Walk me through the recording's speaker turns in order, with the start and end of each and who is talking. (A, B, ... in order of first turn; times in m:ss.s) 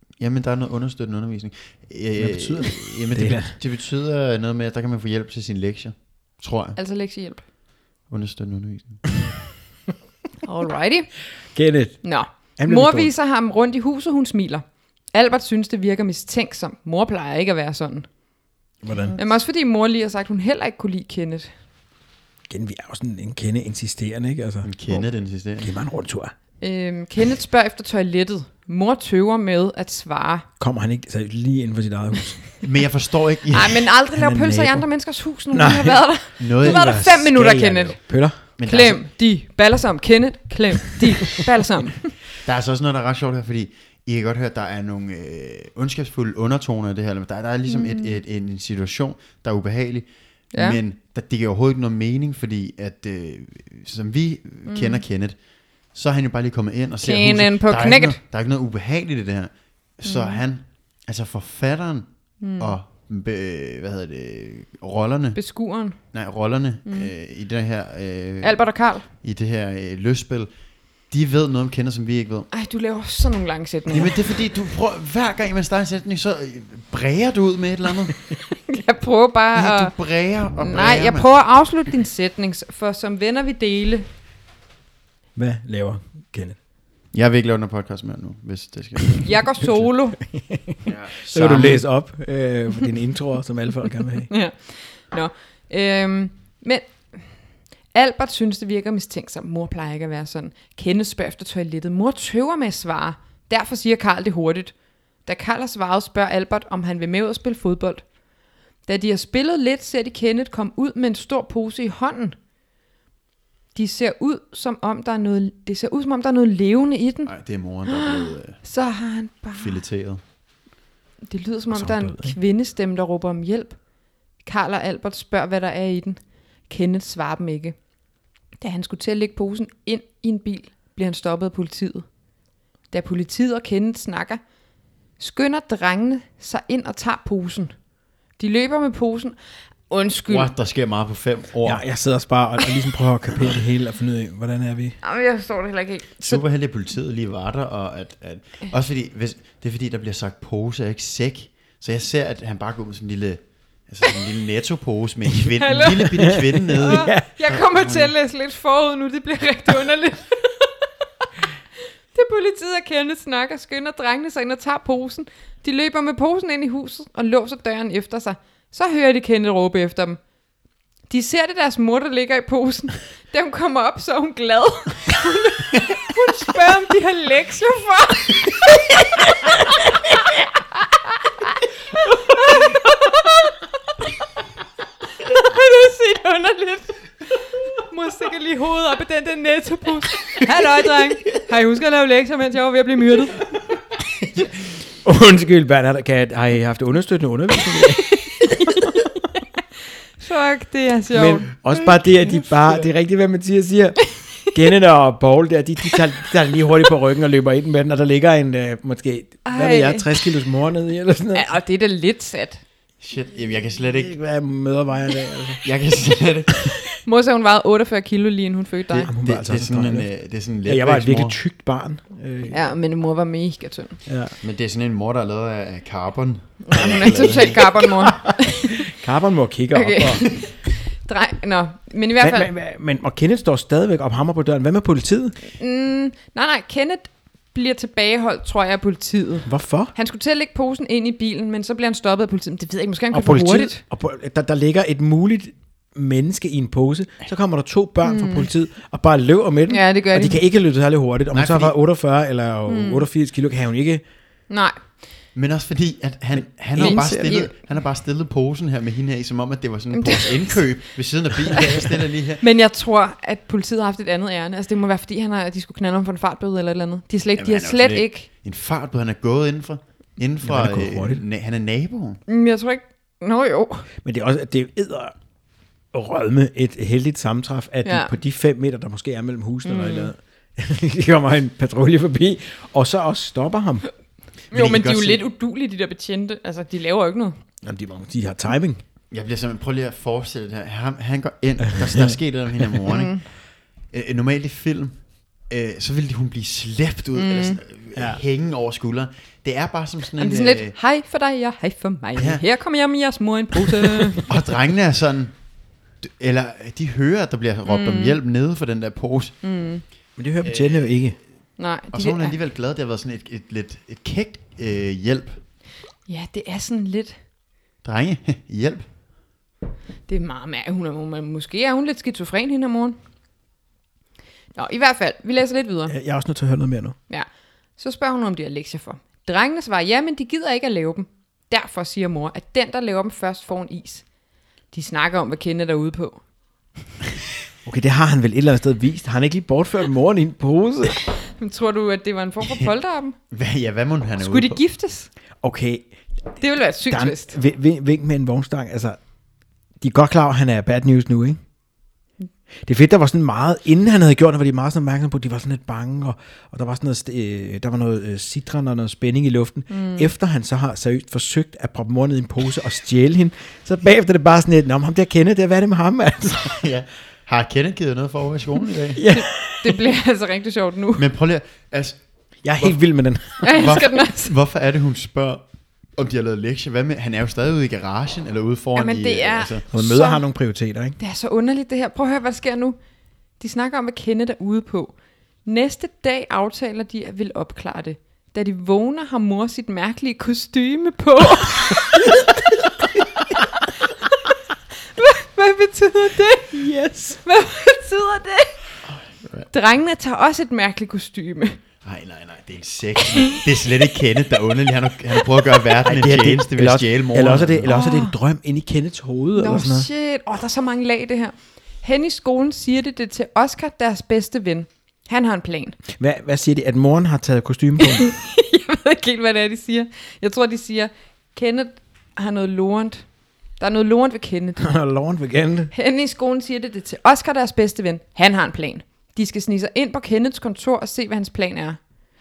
0:00.2-0:06.8 A
0:02.2-0:03.6 B
0:06.8-0:07.4 C
0:08.1-0:09.1 A
0:10.4-0:11.1 C
0:11.5-0:13.1 B
0:12.0-0:18.1 C
0:18.8-0:19.2 B
0:19.2-0:21.5 C
0:22.5-0:25.1 B
0:24.6-0:25.7 A
0:25.6-0:26.3 B
0:26.6-0:30.5 C
0:30.6-0:32.4 B
0:32.6-0:33.8 A
0:33.5-0:42.1 C
0:34.1-0:34.9 B
0:35.5-0:38.4 B
0:36.4-0:37.2 A
0:38.6-0:39.0 A
0:42.4-0:55.4 A
0:47.7-0:48.2 C
0:50.5-0:50.8 C
0:54.7-0:55.0 C
0:55.9-1:05.4 A
0:57.0-0:58.2 C
1:00.0-1:00.4 C
1:02.4-1:02.8 C
1:05.4-1:06.0 C
1:06.1-1:10.5 A
1:08.4-1:09.0 C
1:11.1-1:12.5 A
1:12.5-1:14.2 C
1:13.9-1:18.2 A
1:18.6-1:19.9 C
1:19.5-1:21.5 A
1:20.6-1:24.0 C
1:25.3-1:26.6 B
1:27.1-1:29.3 A
1:29.2-1:30.2 C
1:30.2-1:34.3 B
1:30.8-1:31.8 A
1:34.3-1:37.3 C
1:37.9-1:44.7 C
1:45.2-1:48.0 C
1:48.8-1:52.4 C
1:53.7-1:57.3 C
1:57.2-1:58.6 A
1:57.8-1:59.8 C
1:59.5-2:00.2 A
2:01.3-2:03.8 C
2:01.7-2:02.4 B
2:04.4-2:07.8 C
2:08.6-2:12.0 C
2:12.9-2:14.4 C
2:15.2-2:17.7 C
2:18.4-2:19.4 C
2:19.9-2:20.5 C
2:20.3-2:21.8 A
2:21.6-2:25.0 B
2:25.0-2:26.4 C
2:26.2-2:38.1 A
2:35.6-2:41.3 C
2:36.2-2:37.2 B
2:42.1-2:50.2 C
2:51.1-2:59.6 C
3:02.1-3:03.6 C
3:05.2-3:07.0 C
3:07.7-3:13.4 C
3:15.0-3:18.9 B
3:18.4-3:19.0 C
3:20.2-3:21.5 C
3:21.1-3:31.5 B
3:29.4-3:30.1 C
3:31.3-3:32.6 C
3:33.0-3:34.2 A
3:34.0-3:35.6 B
3:35.6-3:36.8 A
3:37.0-3:39.1 C
3:38.9-3:40.1 B
3:39.2-3:41.4 A
3:40.6-3:42.6 B
3:42.5-3:44.0 C
3:44.1-3:44.4 B
3:44.4-3:48.1 A
3:46.6-3:48.9 C
3:48.8-3:50.3 B
3:49.7-3:52.5 C
3:52.2-3:55.4 B
3:55.5-4:03.8 C
3:59.4-3:59.9 B
4:03.1-4:14.0 B
4:08.0-4:08.5 C
4:09.7-4:10.4 C
4:11.3-4:11.7 A
4:12.7-4:13.0 C
4:14.5-4:14.8 C
4:15.3-4:22.4 A
4:16.7-4:17.2 B
4:16.8-4:17.5 C
4:19.9-4:20.7 C
4:22.4-4:28.3 C
4:27.4-4:32.2 A
4:30.4-4:31.2 B
4:32.3-4:33.9 C
4:34.0-4:35.1 B
4:35.9-4:43.8 B
4:37.8-4:38.1 C
4:39.6-4:40.1 C
4:44.5-4:45.2 A
4:44.5-4:47.4 C
4:47.6-4:48.8 B
4:49.1-4:53.3 A
4:51.8-4:52.1 B
4:52.9-4:53.2 C
4:53.9-5:00.7 A
4:57.2-4:57.6 C
4:57.9-4:58.2 B
5:00.2-5:04.3 C
5:02.2-5:02.4 A
5:04.2-5:05.4 A
5:06.0-5:09.4 A
5:07.6-5:08.2 C
5:09.4-5:09.8 C
5:10.2-5:11.2 B
5:10.4-5:10.9 A
5:11.6-5:12.4 C
5:11.9-5:15.4 A
5:16.1-5:17.2 C
5:17.8-5:18.8 A
5:20.1-5:23.0 C
5:24.5-5:25.9 C
5:25.9-5:27.0 B
5:27.1-5:34.0 C
5:34.7-5:36.2 C
5:37.6-5:41.0 B
5:41.2-5:43.2 C
5:43.3-5:44.6 A
5:44.2-5:45.1 C
5:45.4-5:45.9 B
5:46.4-5:47.3 C
5:46.9-5:49.0 B
5:49.8-5:51.4 B
5:52.6-6:06.7 B
5:59.7-6:00.1 C
6:06.5-6:09.0 A
6:08.9-6:09.8 B
6:09.1-6:11.0 C
6:11.0-6:12.0 A
6:12.4-6:13.7 B
6:13.4-6:14.3 C
6:13.4-6:15.4 A
6:16.0-6:19.6 A
6:18.7-6:20.2 C
6:19.7-6:21.0 B
6:21.0-6:22.8 C
6:23.4-6:32.3 C
6:35.0-6:36.6 C
6:36.5-6:37.2 B
6:37.2-6:38.6 C
6:38.9-6:39.5 A
6:39.5-6:41.6 C
6:41.8-6:47.7 A
6:45.8-6:49.9 B
6:47.7-6:48.1 C
6:49.4-6:55.8 C
6:56.0-6:58.1 B
6:57.8-7:03.1 C
7:03.6-7:04.7 C
7:04.6-7:05.7 B
7:05.7-7:11.8 C